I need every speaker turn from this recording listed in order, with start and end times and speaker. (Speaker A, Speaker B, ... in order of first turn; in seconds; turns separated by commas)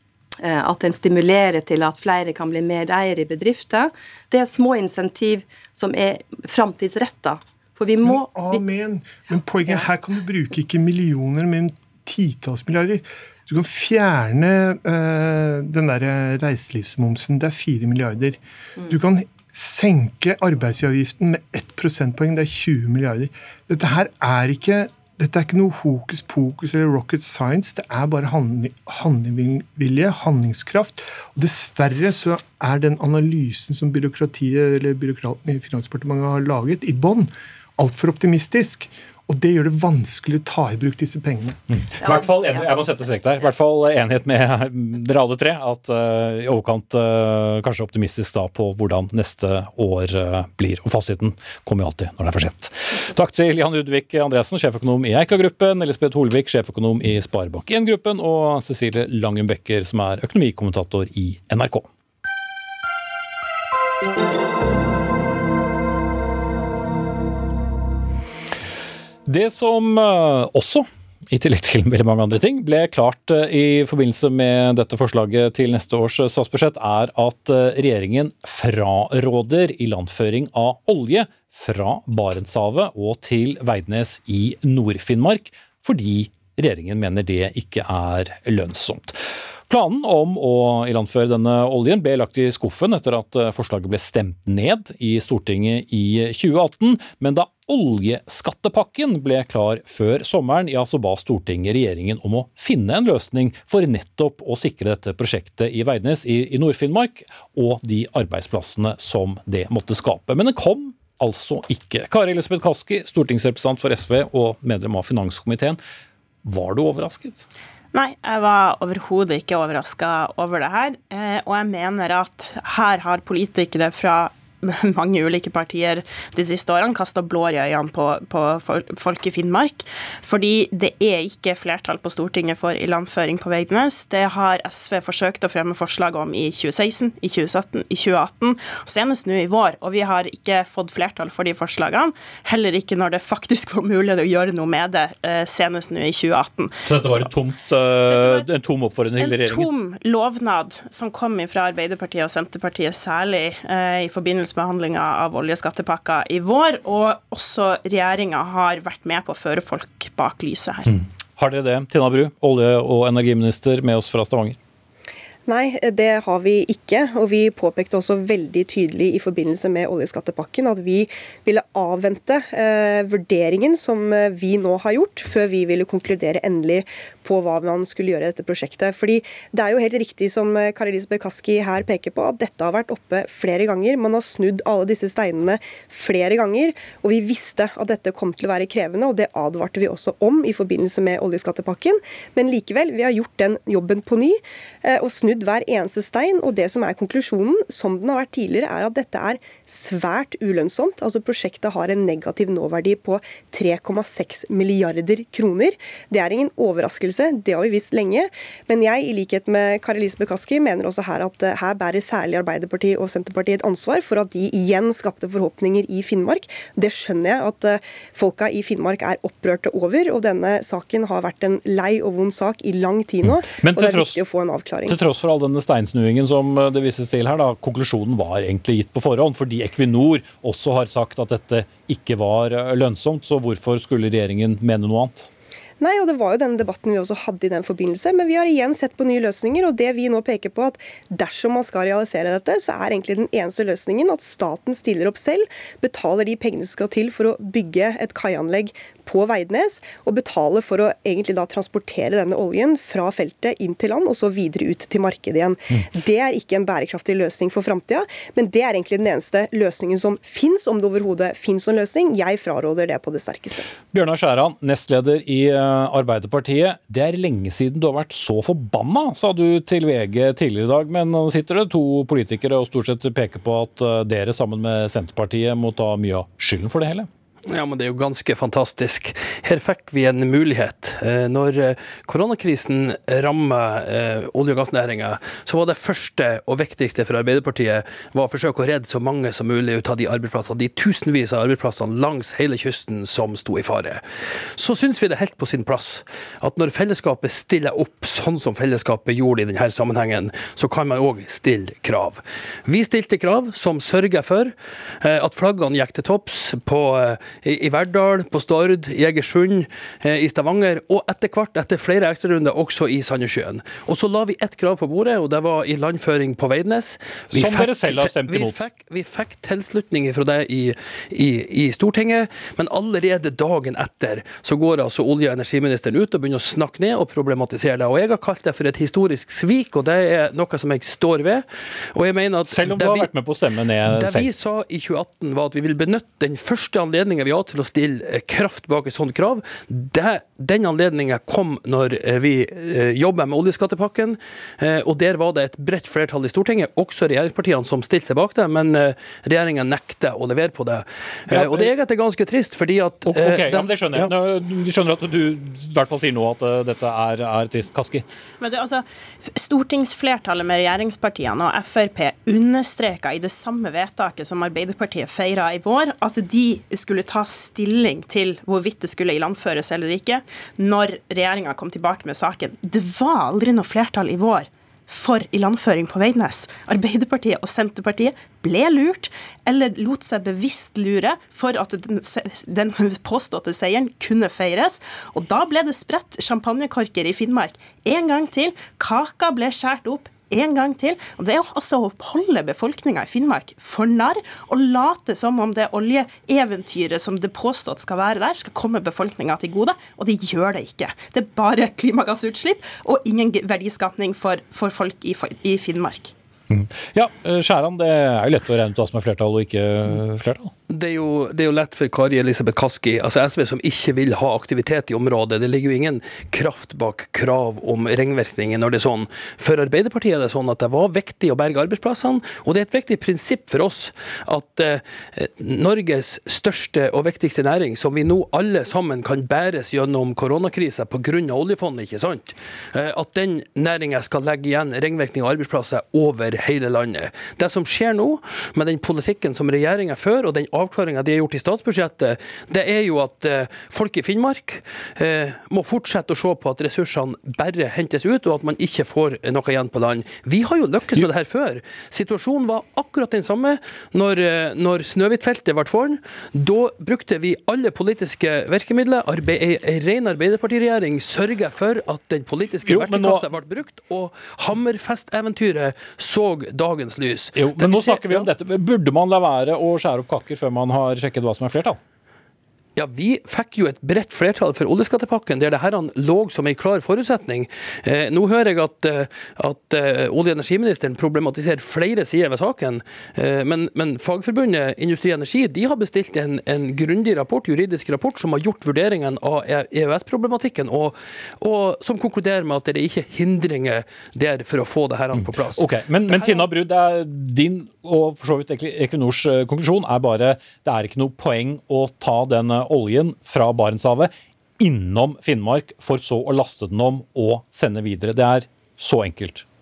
Speaker A: 0.4-8.6, Speaker B: 8.0-41.6, Speaker C: 41.7-61.9, Speaker A: 42.0-42.5, Speaker C: 69.3-115.8, Speaker C: 116.4-117.5, Speaker D: 117.9-147.3, Speaker C: 146.8-149.7, Speaker D: 148.1-148.5, Speaker D: 149.2-160.9, Speaker C: 160.9-164.6, Speaker E: 165.5-225.0, Speaker C: 223.2-224.2, Speaker C: 224.8-235.3, Speaker E: 235.8-263.7, Speaker C: 263.9-277.1, Speaker F: 277.4-294.0, Speaker F: 294.6-333.1, Speaker C: 317.3-318.6, Speaker C: 332.5-334.3, Speaker F: 333.8-354.1, Speaker C: 351.3-351.7, Speaker C: 353.1-358.0, Speaker D: 358.4-406.1, Speaker C: 406.5-410.5, Speaker F: 410.7-468.3, Speaker C: 462.7-463.2, Speaker C: 467.4-471.8, Speaker F: 472.8-496.3, Speaker C: 495.1-509.4